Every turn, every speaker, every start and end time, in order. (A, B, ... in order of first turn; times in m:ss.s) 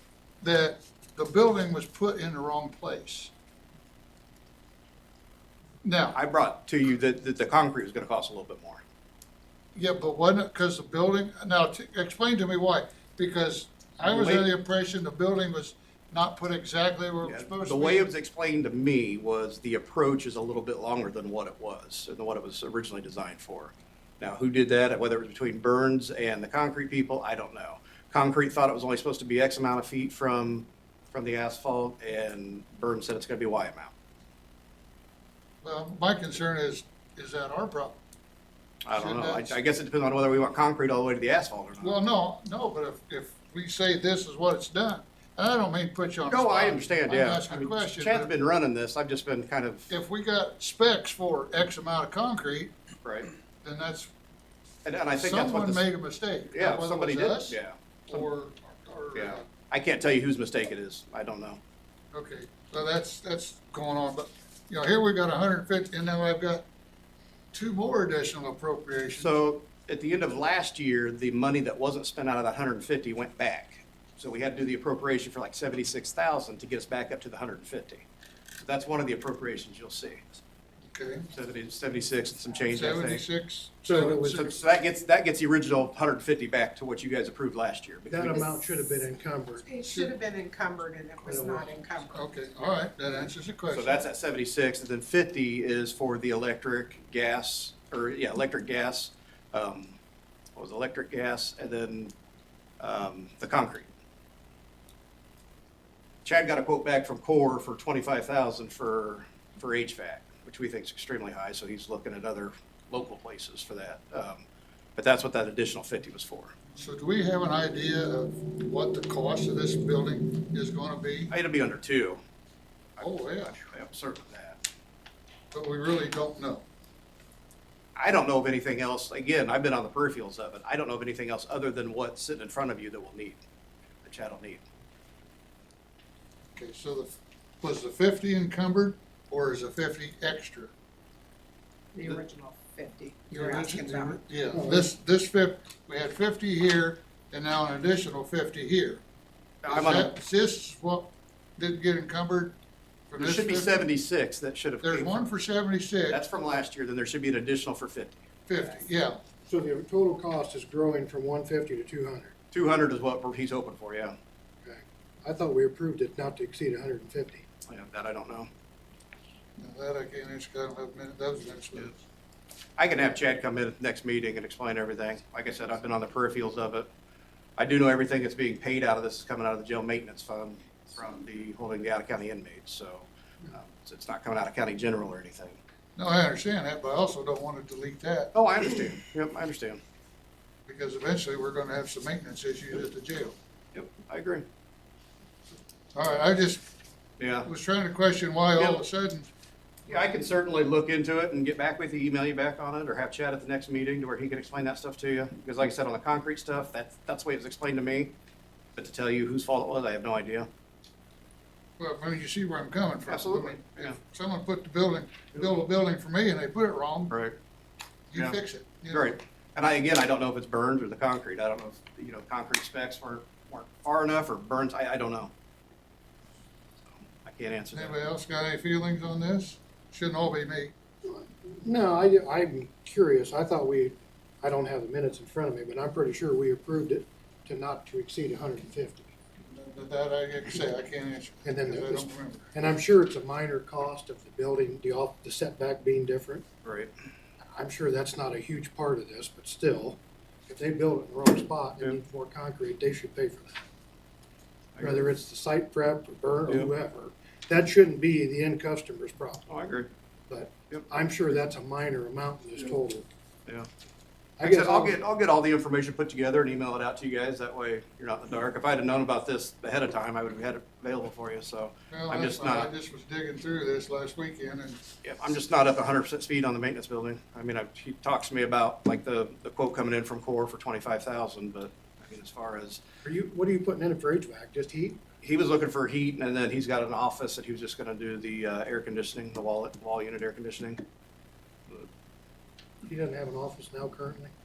0:00.4-0:03.3 A
0:05.8-0:06.2 A
0:06.2-0:08.8 B
0:09.8-0:18.1 A
0:14.0-0:14.5 B
0:17.2-0:33.9 B
0:35.6-0:38.0 A
0:38.8-0:42.0 B
0:38.9-0:39.6 A
0:41.8-0:48.3 A
0:46.3-0:49.9 B
0:49.9-0:52.8 A
0:53.0-0:53.3 B
0:53.6-0:54.1 A
0:54.8-0:55.9 B
0:55.2-0:59.5 A
0:56.5-0:58.2 B
0:59.2-1:01.6 B
1:02.1-1:06.6 A
1:07.5-1:09.4 A
1:09.2-1:18.0 B
1:18.6-1:20.4 B
1:20.9-1:21.3 A
1:21.3-1:23.2 B
1:22.7-1:24.3 A
1:23.8-1:24.5 C
1:24.1-1:28.5 B
1:28.1-1:29.6 C
1:28.2-1:32.3 D
1:29.8-1:30.1 A
1:32.1-1:34.0 A
1:33.7-1:40.0 B
1:40.6-1:42.1 B
1:42.8-1:43.9 B
1:46.2-1:54.4 B
1:55.0-1:56.5 B
1:56.8-2:01.3 A
2:01.3-2:02.2 B
2:03.0-2:04.6 B
2:03.0-2:03.6 A
2:05.5-2:06.6 A
2:08.0-2:13.4 B
2:14.0-2:14.6 B
2:16.6-2:20.7 A
2:21.9-2:24.2 D
2:23.3-2:29.0 A
2:24.5-2:24.9 C
2:29.6-2:30.1 B
2:29.7-2:32.6 A
2:33.1-2:33.8 A
2:33.2-2:35.3 B
2:34.8-2:36.2 A
2:36.1-2:38.2 B
2:38.5-2:39.2 A
2:39.5-2:42.3 C
2:42.5-2:44.2 B
2:44.6-2:47.4 C
2:47.7-2:48.5 B
2:49.6-2:52.0 A
2:52.8-2:56.9 B
2:57.6-3:05.6 B
3:06.0-3:08.3 A
3:08.3-3:09.8 B
3:10.7-3:13.4 A
3:13.7-3:14.4 B
3:15.9-3:16.7 A
3:17.2-3:17.5 B
3:17.4-3:19.3 A
3:18.6-3:18.8 B
3:19.9-3:28.1 B
3:28.8-3:30.5 B
3:31.8-3:37.2 A
3:33.1-3:34.0 B
3:37.1-3:37.4 B
3:38.1-3:39.2 A
3:38.9-3:45.3 B
3:46.8-3:48.0 B
3:47.7-3:50.7 A
3:51.0-3:59.1 C
3:59.4-4:02.6 A
4:01.4-4:06.4 C
4:06.6-4:06.9 B
4:07.5-4:13.6 C
4:14.8-4:15.1 B
4:14.8-4:19.4 C
4:19.5-4:19.9 B
4:20.3-4:23.1 C
4:24.4-4:25.0 C
4:24.4-4:32.7 B
4:31.9-4:34.8 A
4:35.0-4:42.8 B
4:43.0-4:45.0 C
4:45.2-4:50.8 B
4:52.8-4:54.3 C